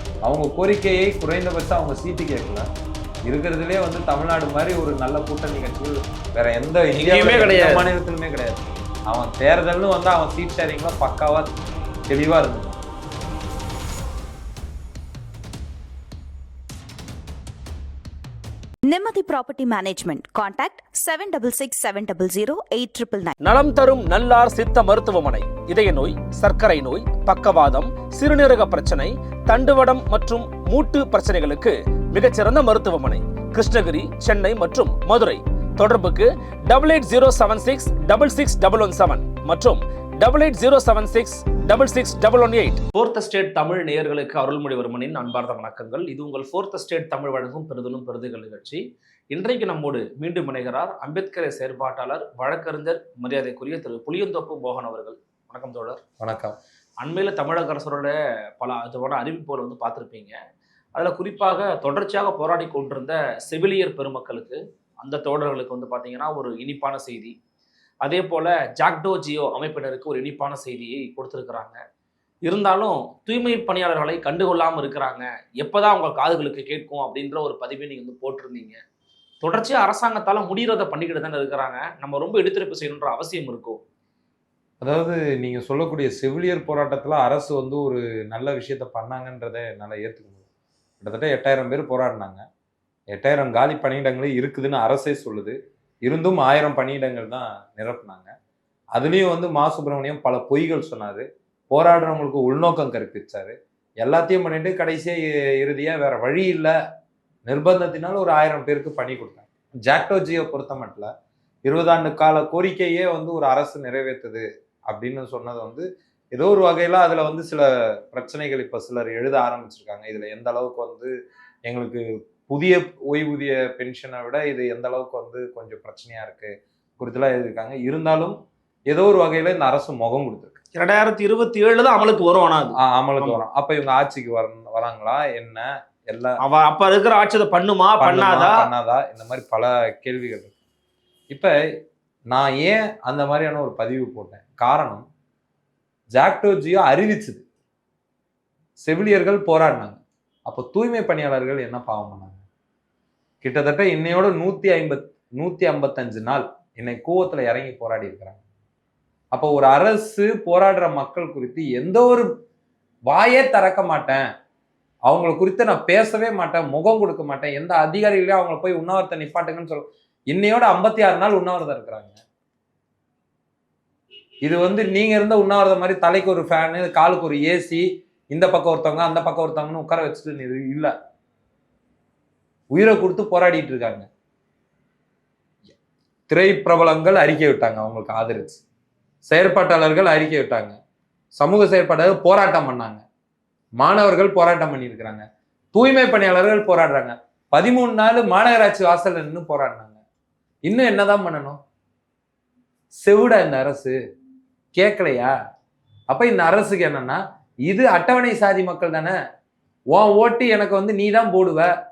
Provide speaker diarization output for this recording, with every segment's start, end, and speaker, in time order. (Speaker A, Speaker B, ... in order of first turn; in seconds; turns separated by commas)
Speaker A: 0.3-2.7, Speaker A: 3.3-11.5, Speaker B: 6.9-7.9, Speaker A: 12.1-12.8, Speaker C: 18.9-23.3, Speaker B: 23.4-56.0, Speaker A: 56.2-56.6, Speaker B: 57.0-60.4, Speaker B: 61.0-67.3, Speaker B: 68.0-71.8, Speaker B: 72.5-78.8, Speaker B: 79.4-83.8, Speaker A: 84.8-90.4, Speaker A: 91.0-92.4, Speaker A: 93.1-98.3, Speaker A: 98.9-106.7, Speaker A: 107.5-111.1, Speaker A: 111.7-121.1, Speaker A: 121.7-130.6, Speaker B: 130.8-133.4, Speaker A: 132.8-136.4, Speaker B: 136.4-138.7, Speaker A: 138.0-140.5, Speaker A: 141.3-141.6, Speaker A: 142.3-145.1, Speaker A: 146.1-147.4, Speaker A: 148.8-152.4, Speaker A: 153.4-158.4, Speaker A: 159.3-162.3, Speaker A: 163.1-164.3, Speaker A: 165.1-172.2, Speaker A: 174.4-180.9, Speaker A: 182.7-184.1, Speaker A: 186.3-188.6, Speaker A: 189.3-190.8, Speaker A: 191.4-193.0, Speaker A: 193.8-200.0, Speaker A: 200.7-201.6, Speaker A: 202.9-204.0, Speaker A: 204.7-205.3, Speaker A: 206.1-209.2, Speaker A: 209.9-211.7